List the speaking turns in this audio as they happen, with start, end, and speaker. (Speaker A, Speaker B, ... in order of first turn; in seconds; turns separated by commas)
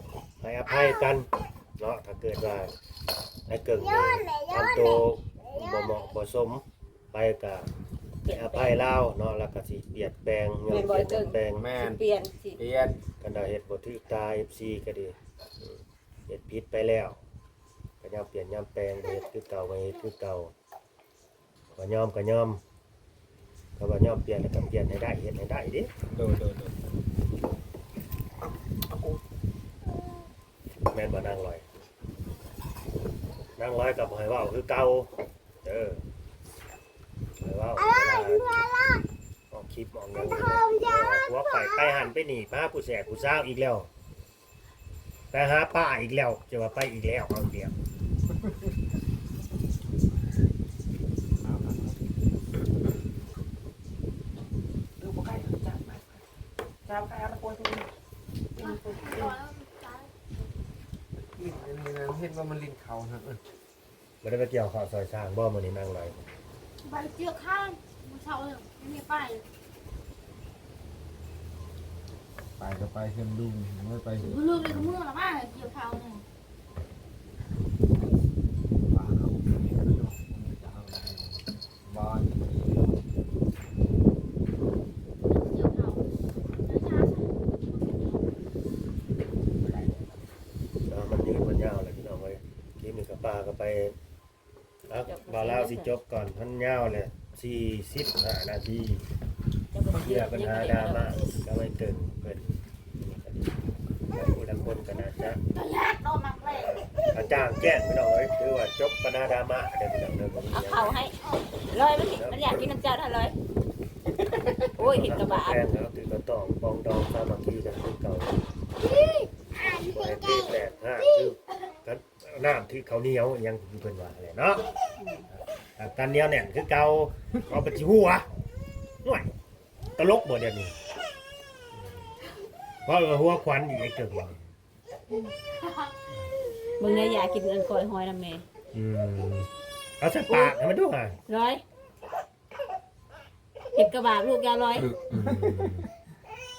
Speaker A: 0.4-2.7, Speaker A: 3.5-7.7, Speaker B: 8.2-8.8, Speaker A: 8.3-11.7, Speaker B: 10.7-12.6, Speaker C: 11.5-12.0, Speaker C: 12.6-13.0, Speaker A: 13.2-15.7, Speaker A: 16.3-17.2, Speaker A: 18.0-20.5, Speaker A: 21.8-22.6, Speaker A: 23.8-25.9, Speaker C: 26.1-26.7, Speaker A: 30.9-31.6, Speaker A: 33.6-36.0, Speaker A: 37.4-38.7, Speaker A: 39.5-43.9, Speaker A: 45.3-47.7, Speaker C: 48.3-48.7, Speaker C: 51.4-52.0, Speaker C: 55.0-56.2, Speaker C: 56.9-57.9, Speaker C: 58.5-59.3, Speaker D: 58.6-60.5, Speaker C: 61.2-63.4, Speaker A: 64.2-66.2, Speaker D: 66.8-69.5, Speaker C: 72.6-74.9, Speaker D: 74.2-76.2, Speaker C: 78.9-83.0, Speaker D: 85.2-88.4, Speaker C: 89.6-90.0, Speaker A: 90.9-93.9, Speaker A: 94.9-99.0, Speaker B: 95.0-95.9, Speaker B: 99.7-101.2, Speaker A: 99.9-103.6, Speaker A: 104.1-105.4, Speaker D: 105.5-106.8, Speaker A: 106.5-111.0, Speaker B: 110.5-111.2, Speaker B: 111.7-113.3, Speaker A: 112.2-112.6, Speaker B: 114.7-115.6, Speaker A: 114.8-118.4, Speaker A: 119.7-124.7, Speaker B: 125.0-125.2, Speaker A: 125.8-128.2, Speaker A: 129.0-129.3, Speaker A: 129.9-130.8, Speaker A: 132.8-134.4, Speaker D: 135.1-135.9, Speaker B: 136.8-138.4, Speaker A: 138.7-141.2, Speaker B: 140.3-140.6, Speaker B: 141.3-141.6, Speaker B: 143.7-144.9, Speaker C: 144.7-145.7, Speaker A: 145.1-145.9